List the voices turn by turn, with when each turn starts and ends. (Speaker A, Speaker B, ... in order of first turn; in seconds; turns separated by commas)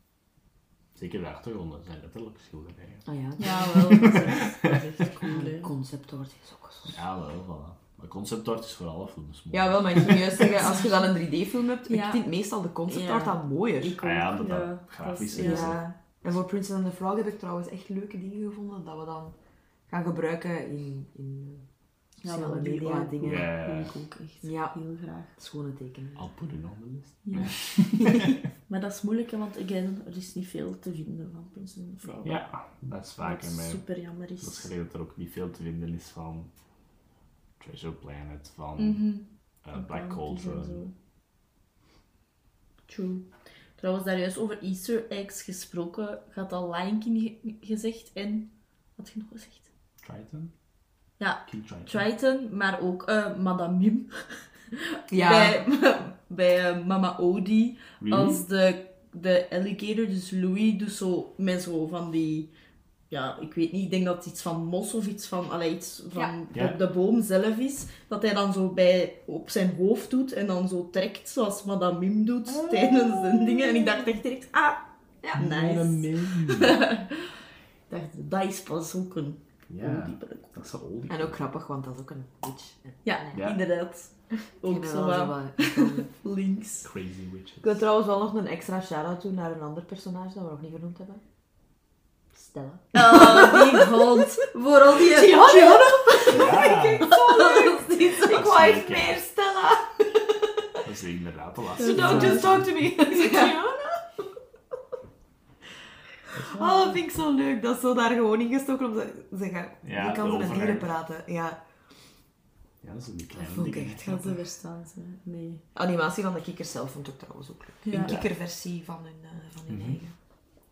Speaker A: 0.9-3.1, Speaker B: 3.0-7.0, Speaker C: 3.4-5.7, Speaker A: 3.7-4.5, Speaker A: 6.9-10.5, Speaker B: 9.5-14.0, Speaker C: 10.6-10.9, Speaker C: 11.9-12.2, Speaker C: 12.9-15.9, Speaker A: 14.0-15.8, Speaker B: 15.3-19.3, Speaker B: 19.9-21.6, Speaker C: 22.2-25.3, Speaker B: 22.2-23.6, Speaker A: 23.2-24.0, Speaker B: 24.4-24.8, Speaker B: 25.3-26.2, Speaker A: 26.2-28.3, Speaker C: 27.2-32.3, Speaker A: 32.2-36.5, Speaker C: 33.2-34.7, Speaker A: 37.6-40.8, Speaker C: 38.8-40.9, Speaker C: 42.9-49.7, Speaker A: 50.0-50.5, Speaker C: 51.2-62.5, Speaker A: 51.5-52.0, Speaker B: 55.1-55.6, Speaker A: 58.0-58.4, Speaker C: 63.1-77.4, Speaker A: 66.5-66.8, Speaker A: 72.7-73.4, Speaker A: 75.3-76.8, Speaker C: 77.9-80.5, Speaker A: 79.7-81.4, Speaker B: 81.1-83.4, Speaker C: 83.0-86.9, Speaker B: 84.6-86.1, Speaker A: 86.8-87.8, Speaker B: 87.6-91.2, Speaker B: 92.3-94.2, Speaker C: 92.9-98.4, Speaker B: 94.9-100.8, Speaker A: 96.3-97.1, Speaker A: 98.3-99.2, Speaker A: 100.8-102.7, Speaker C: 101.8-103.5, Speaker B: 101.8-104.2, Speaker B: 106.5-111.6, Speaker C: 106.5-106.8, Speaker A: 109.8-110.9, Speaker A: 112.8-114.0, Speaker B: 113.3-114.4, Speaker C: 114.0-115.6, Speaker B: 115.7-120.1, Speaker C: 117.8-118.2, Speaker A: 119.7-120.0